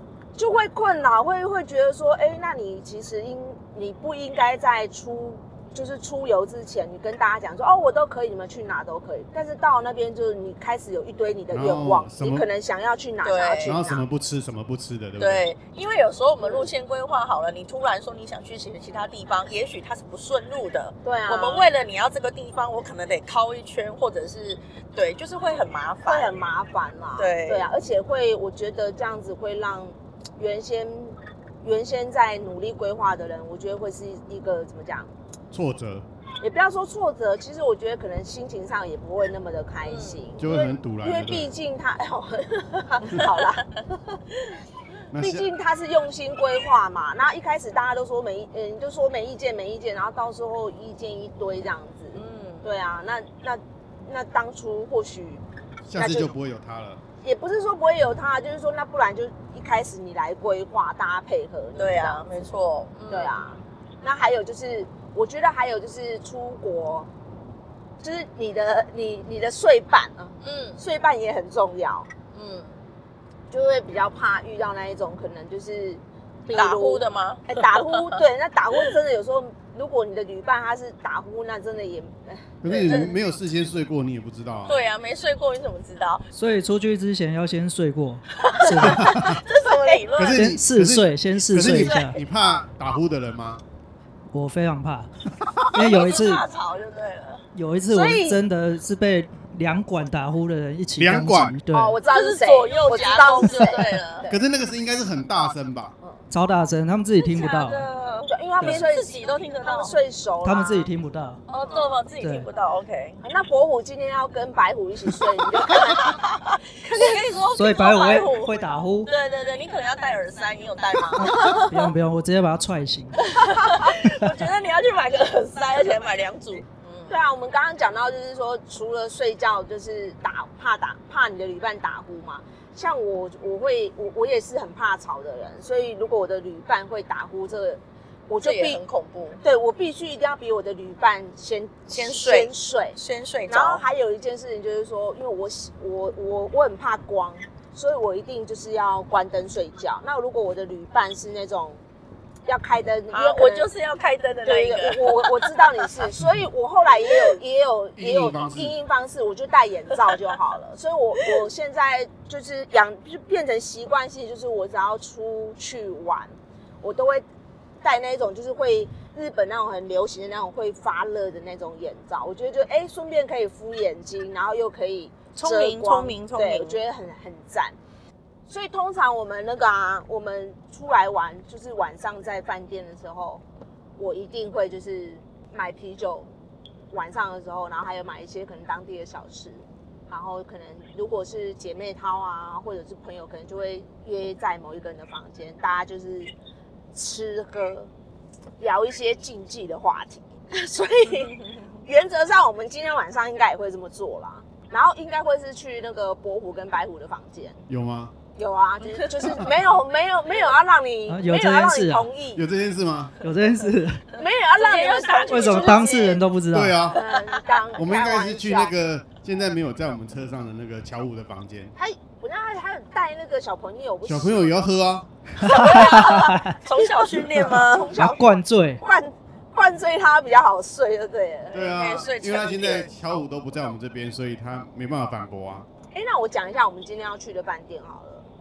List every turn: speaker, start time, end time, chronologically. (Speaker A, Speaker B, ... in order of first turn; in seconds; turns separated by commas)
Speaker A: 0.3-14.0, Speaker B: 11.5-12.5, Speaker C: 13.2-13.8, Speaker B: 13.6-15.4, Speaker C: 15.2-26.4, Speaker A: 16.4-16.7, Speaker A: 21.0-21.6, Speaker A: 26.1-35.1, Speaker C: 27.2-27.7, Speaker B: 35.5-36.0, Speaker A: 36.4-43.7, Speaker C: 39.9-40.2, Speaker B: 40.4-41.5, Speaker B: 45.1-45.5, Speaker A: 45.2-55.4, Speaker C: 52.1-52.6, Speaker B: 55.9-57.0, Speaker A: 56.0-56.3, Speaker A: 57.2-62.2, Speaker C: 61.8-63.3, Speaker A: 63.1-67.1, Speaker A: 68.0-72.1, Speaker C: 70.4-70.8, Speaker C: 72.3-72.7, Speaker A: 73.5-83.1, Speaker C: 76.5-78.2, Speaker B: 82.6-84.8, Speaker C: 82.8-83.1, Speaker C: 84.7-86.2, Speaker D: 86.3-89.2, Speaker C: 88.3-90.4, Speaker A: 88.6-90.0, Speaker B: 90.2-93.6, Speaker D: 90.3-92.2, Speaker C: 91.6-92.1, Speaker D: 94.3-95.1, Speaker D: 95.7-96.4, Speaker C: 95.7-97.4, Speaker D: 97.5-102.0, Speaker A: 97.9-98.4, Speaker B: 101.0-101.6, Speaker A: 101.7-104.4, Speaker C: 102.1-104.3, Speaker B: 104.3-105.9, Speaker D: 106.3-107.9, Speaker C: 107.2-110.0, Speaker A: 108.3-109.1, Speaker A: 109.6-110.9, Speaker D: 110.4-111.4, Speaker C: 111.5-113.2, Speaker D: 112.2-112.5, Speaker A: 113.2-116.2, Speaker C: 115.9-121.6, Speaker A: 116.8-117.2, Speaker D: 117.5-119.1, Speaker D: 121.2-123.4, Speaker A: 121.3-121.7, Speaker C: 123.2-127.1, Speaker D: 124.1-124.3, Speaker A: 127.1-138.8, Speaker C: 138.4-139.4, Speaker A: 139.4-151.8, Speaker C: 141.9-143.8, Speaker A: 152.4-153.7, Speaker C: 153.1-155.7, Speaker A: 154.4-167.2, Speaker B: 158.0-158.7, Speaker A: 167.8-177.7, Speaker C: 175.3-176.8, Speaker A: 178.5-183.4, Speaker A: 184.0-186.3, Speaker A: 186.9-196.3, Speaker A: 196.9-197.9, Speaker A: 198.6-207.6, Speaker B: 207.7-208.1, Speaker A: 208.3-212.4, Speaker D: 211.1-212.1, Speaker B: 212.3-213.2, Speaker D: 213.2-214.0, Speaker A: 214.1-216.2, Speaker C: 214.6-216.2, Speaker D: 215.3-216.8, Speaker B: 216.5-217.0, Speaker A: 216.9-218.7, Speaker B: 217.8-221.7, Speaker A: 221.8-224.6, Speaker B: 224.0-225.1, Speaker D: 225.4-226.6, Speaker C: 225.4-227.9, Speaker A: 225.5-226.0, Speaker A: 226.8-231.6, Speaker D: 227.9-228.8, Speaker B: 231.5-235.7, Speaker C: 231.6-232.9, Speaker A: 235.9-238.2